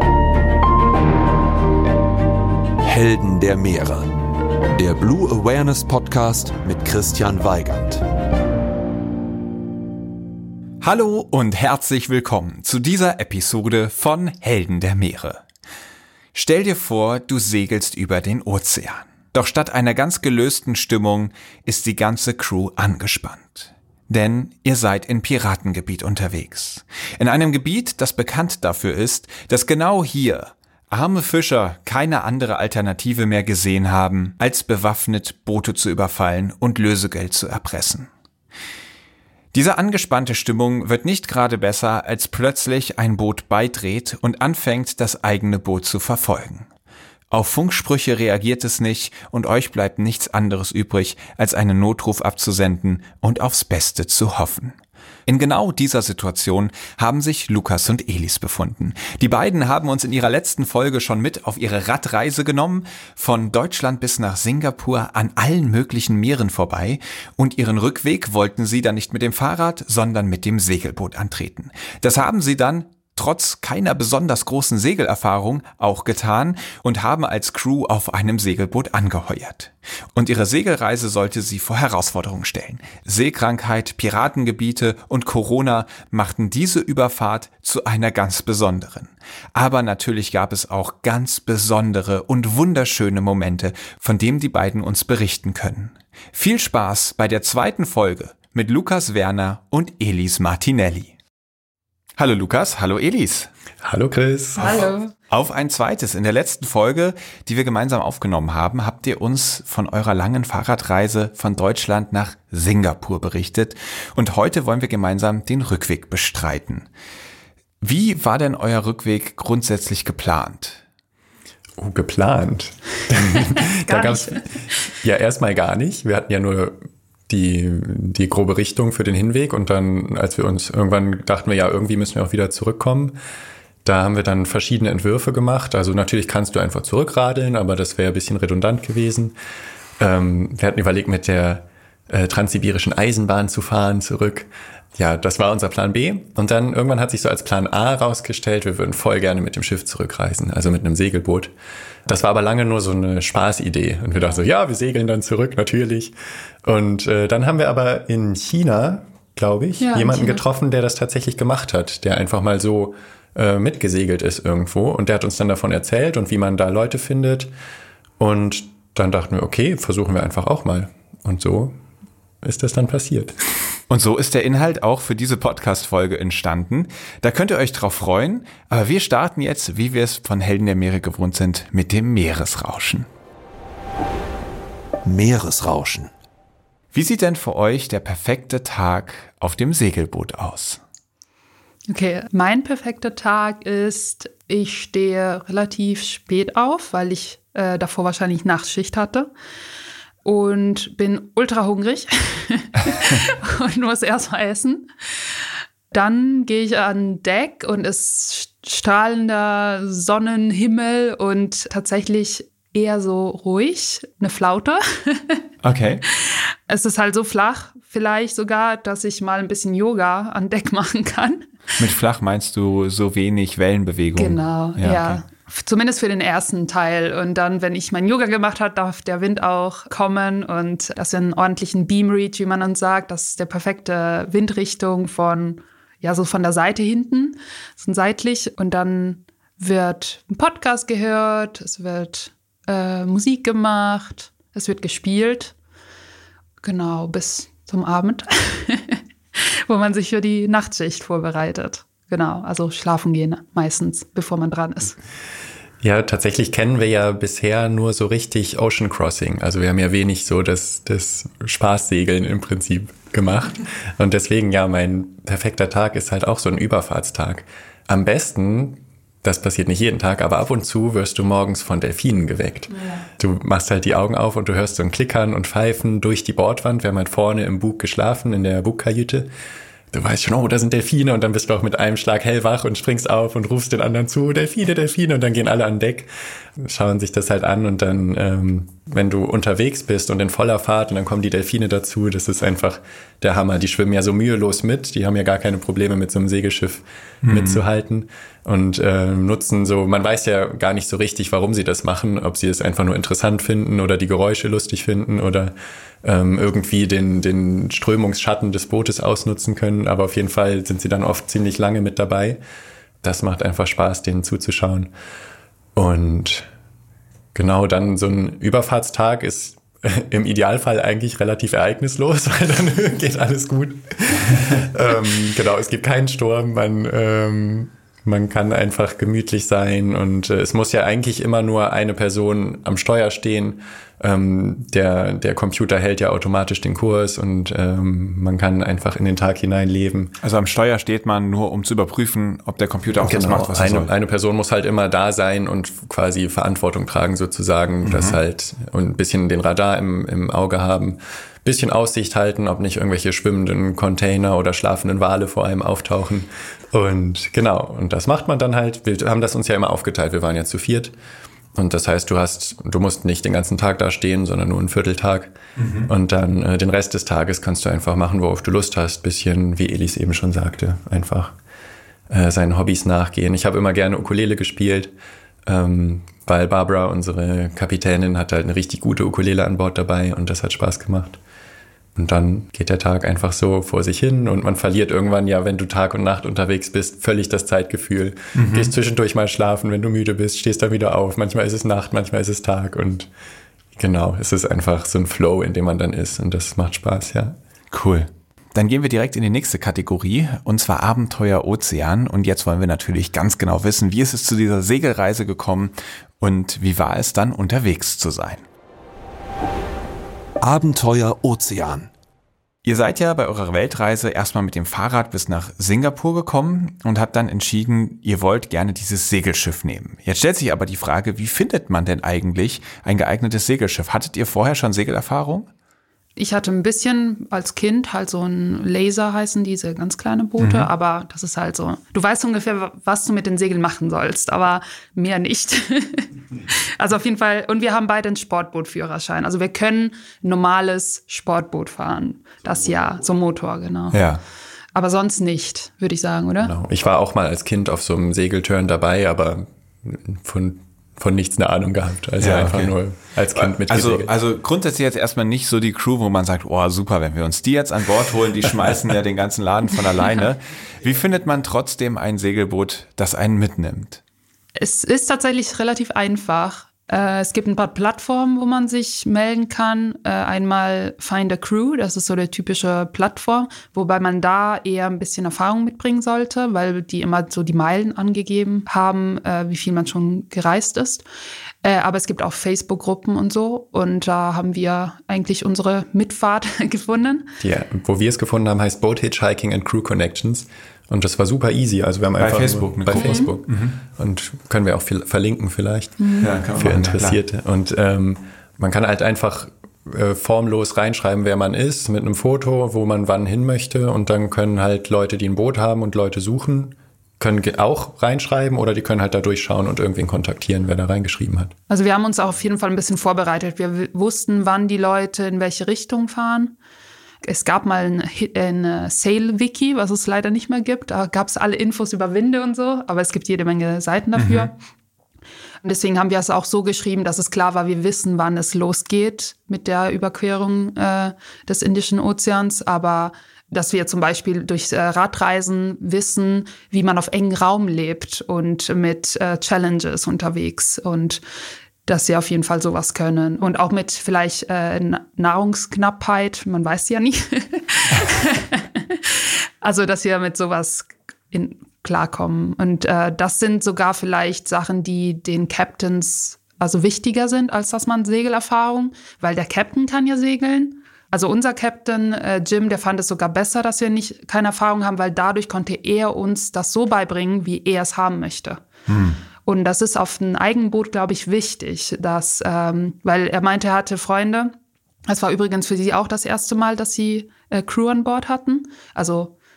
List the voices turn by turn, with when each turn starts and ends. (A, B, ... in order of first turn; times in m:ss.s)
0:02.8-0:04.1 A
0:04.8-0:08.0 A
0:10.8-0:15.4 B
0:16.3-0:38.1 B
0:39.5-0:46.7 B
0:47.3-1:41.1 B
1:42.2-1:43.5 B
1:43.8-1:44.9 C
1:44.6-1:45.1 D
1:44.6-1:56.9 B
1:57.8-2:00.8 B
2:01.8-2:13.2 C
2:03.5-2:04.6 D
2:13.8-2:19.3 C
2:20.0-2:31.5 C
2:32.1-2:36.1 C
2:34.2-2:34.5 D
2:36.6-2:47.5 C
2:39.8-2:40.4 D
2:48.2-2:51.8 C
2:52.4-2:53.4 C
2:53.9-3:03.1 B
3:05.0-3:06.1 A
3:06.9-3:10.8 B
3:11.9-3:19.3 D
3:20.2-3:24.9 D
3:25.9-3:35.4 D
3:35.6-3:36.0 B
3:36.2-3:41.5 D
3:41.8-3:45.2 B
3:44.2-4:05.5 D
4:06.6-4:15.0 D
4:15.8-4:39.3 C
4:32.7-4:33.1 D
4:39.9-5:12.4 C
4:57.2-4:57.6 B
5:13.0-5:14.9 C
5:15.8-5:16.5 C
5:17.4-5:40.1 C
5:40.2-5:43.9 B
5:43.0-6:00.9 C
5:47.8-5:48.2 B
6:01.6-6:05.3 C
6:05.6-6:05.9 B
6:05.9-6:11.3 C
6:12.1-6:14.9 C
6:15.5-6:21.2 C
6:22.0-6:33.1 C
6:28.3-6:28.7 B
6:33.8-6:37.4 C
6:37.7-6:48.4 B
6:50.4-6:51.9 A
6:52.6-7:05.5 B
7:06.2-7:24.0 D
7:10.4-7:10.7 B
7:23.9-7:24.2 B
7:24.8-7:26.5 D
7:26.4-7:34.1 C
7:32.2-7:32.8 B
7:33.3-7:44.0 B
7:44.6-8:01.0 D
8:01.6-8:07.3 D
8:07.4-8:16.0 C
8:12.2-8:13.8 B
8:12.9-8:13.3 D
8:16.0-8:16.3 D
8:16.2-8:17.2 B
8:16.6-8:31.5 C
8:31.7-8:36.6 D
8:37.2-8:44.5 D
8:44.2-8:44.5 B
8:45.6-9:01.2 D
9:01.9-9:28.6 D
9:28.9-9:29.2 B
9:29.4-9:34.5 D
9:35.1-9:39.3 D